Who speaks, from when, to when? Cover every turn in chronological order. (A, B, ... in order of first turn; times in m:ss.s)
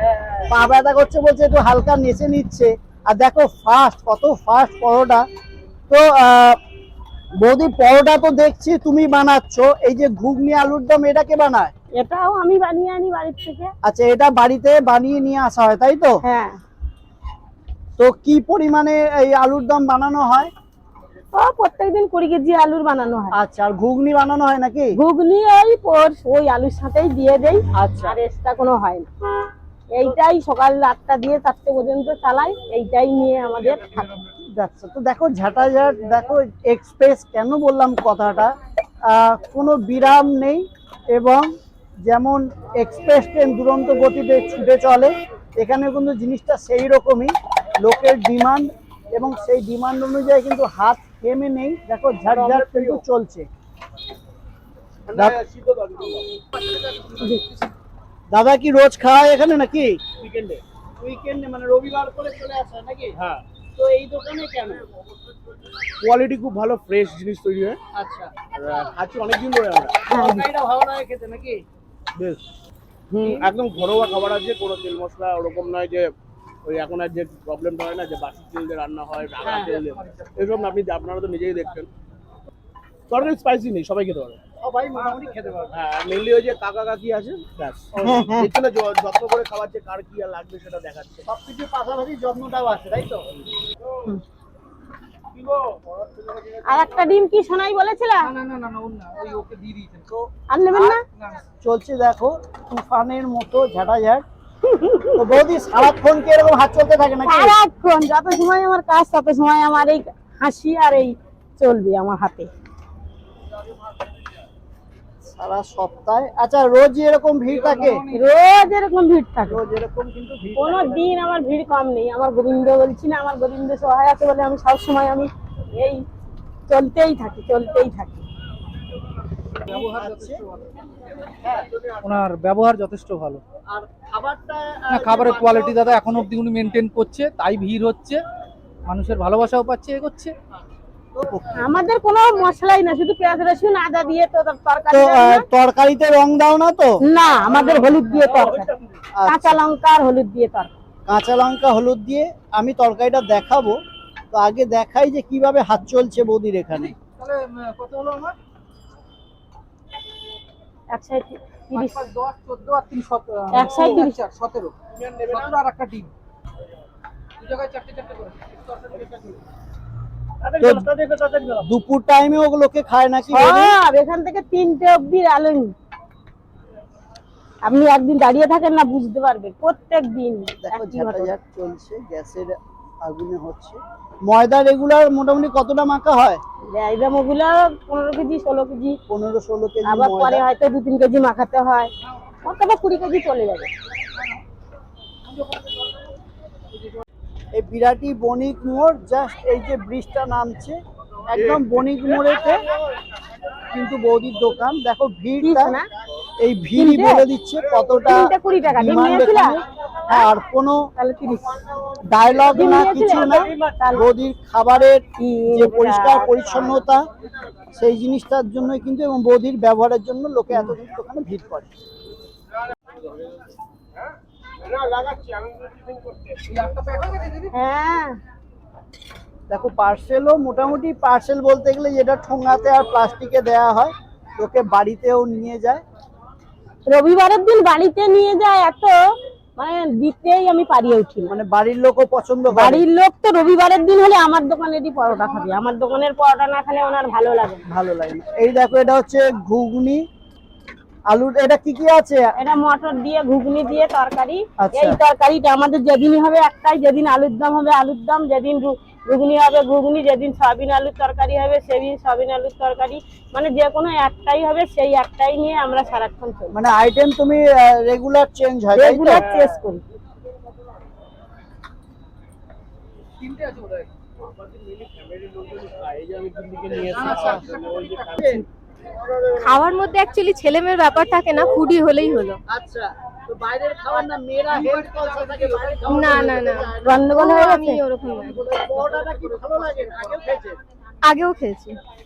0:00.4-0:05.2 A
0:05.9-0:06.6 A
0:07.4-0:11.7 A
0:12.0-0:13.7 B
0:13.8-0:16.2 A
0:16.2-0:16.6 B
0:18.0-0:20.5 A
0:21.3-0:23.4 B
0:23.3-0:24.9 A
0:25.0-0:29.1 B
0:27.7-0:28.2 A
0:29.9-0:34.2 B
0:34.5-0:38.5 A
0:39.1-0:41.5 A
0:42.0-0:53.5 A
0:52.3-0:53.0 C
0:55.1-0:56.3 C
0:57.1-0:57.4 B
0:58.3-1:00.0 A
1:00.2-1:00.6 C
1:01.0-1:03.2 A
1:03.2-1:03.4 C
1:03.8-1:04.8 A
1:06.0-1:07.8 C
1:07.9-1:08.4 A
1:08.5-1:10.0 C
1:10.1-1:10.5 B
1:10.1-1:11.6 A
1:12.2-1:12.4 C
1:13.1-1:13.4 A
1:13.2-1:16.1 C
1:16.6-1:21.9 C
1:19.4-1:19.8 A
1:23.1-1:24.4 C
1:24.6-1:25.7 A
1:25.7-1:31.2 C
1:28.0-1:28.3 A
1:28.0-1:28.4 B
1:31.3-1:33.2 A
1:36.6-1:38.3 B
1:38.2-1:40.1 D
1:40.1-1:40.9 A
1:40.5-1:41.0 B
1:41.2-1:41.4 D
1:41.6-1:44.2 A
1:44.6-1:45.2 B
1:45.2-1:47.5 A
1:47.2-1:52.5 B
1:55.2-1:58.1 A
1:58.1-1:59.6 B
1:59.5-2:01.1 A
2:00.6-2:06.0 B
2:06.7-2:08.2 B
2:09.6-2:10.6 D
2:09.7-2:10.4 A
2:11.4-2:11.7 A
2:12.0-2:13.4 D
2:13.7-2:15.9 A
2:14.9-2:18.2 D
2:18.9-2:20.3 D
2:21.2-2:21.5 A
2:21.5-2:25.4 B
2:24.9-2:27.0 A
2:27.0-2:28.7 B
2:29.2-2:29.6 A
2:29.2-2:30.7 B
2:31.1-2:33.8 A
2:34.3-2:36.9 A
2:36.8-2:38.4 D
2:40.9-2:42.0 B
2:41.7-2:46.1 D
2:43.5-2:44.2 B
2:44.9-2:45.5 C
2:47.4-2:49.2 D
2:50.4-2:51.6 C
2:50.6-2:50.9 A
2:51.6-2:53.8 A
2:53.3-2:55.7 B
2:57.6-3:01.3 B
3:00.6-3:06.4 A
3:06.7-3:09.0 B
3:09.1-3:10.4 A
3:09.8-3:11.9 B
3:12.4-3:13.7 B
3:17.5-3:22.7 A
3:21.3-3:21.7 C
3:23.7-3:25.8 A
3:25.4-3:25.9 B
3:26.4-3:30.8 A
3:26.7-3:27.3 B
3:28.0-3:30.2 B
3:31.0-3:31.6 B
3:32.1-3:37.0 A
3:32.5-3:34.0 B
3:35.2-3:36.8 B
3:37.7-3:41.7 A
3:44.6-3:46.4 C
3:46.5-3:47.5 D
3:47.5-3:48.2 B
3:49.5-3:55.8 A
3:56.9-3:59.0 B
3:59.6-4:01.3 B
4:01.3-4:02.8 A
4:02.5-4:07.6 B
4:07.7-4:10.0 A
4:11.1-4:12.2 A
4:12.4-4:26.6 B
4:14.6-4:15.0 A
4:26.5-4:29.3 A
4:28.7-4:29.8 B
4:33.2-4:33.9 D
4:34.2-4:38.4 C
4:36.8-4:38.3 D
4:38.1-4:38.4 A
4:39.3-4:42.4 E
4:42.5-4:47.1 A
4:45.8-4:48.4 E
4:46.8-4:47.8 B
4:48.2-4:50.6 A
4:51.0-4:51.8 E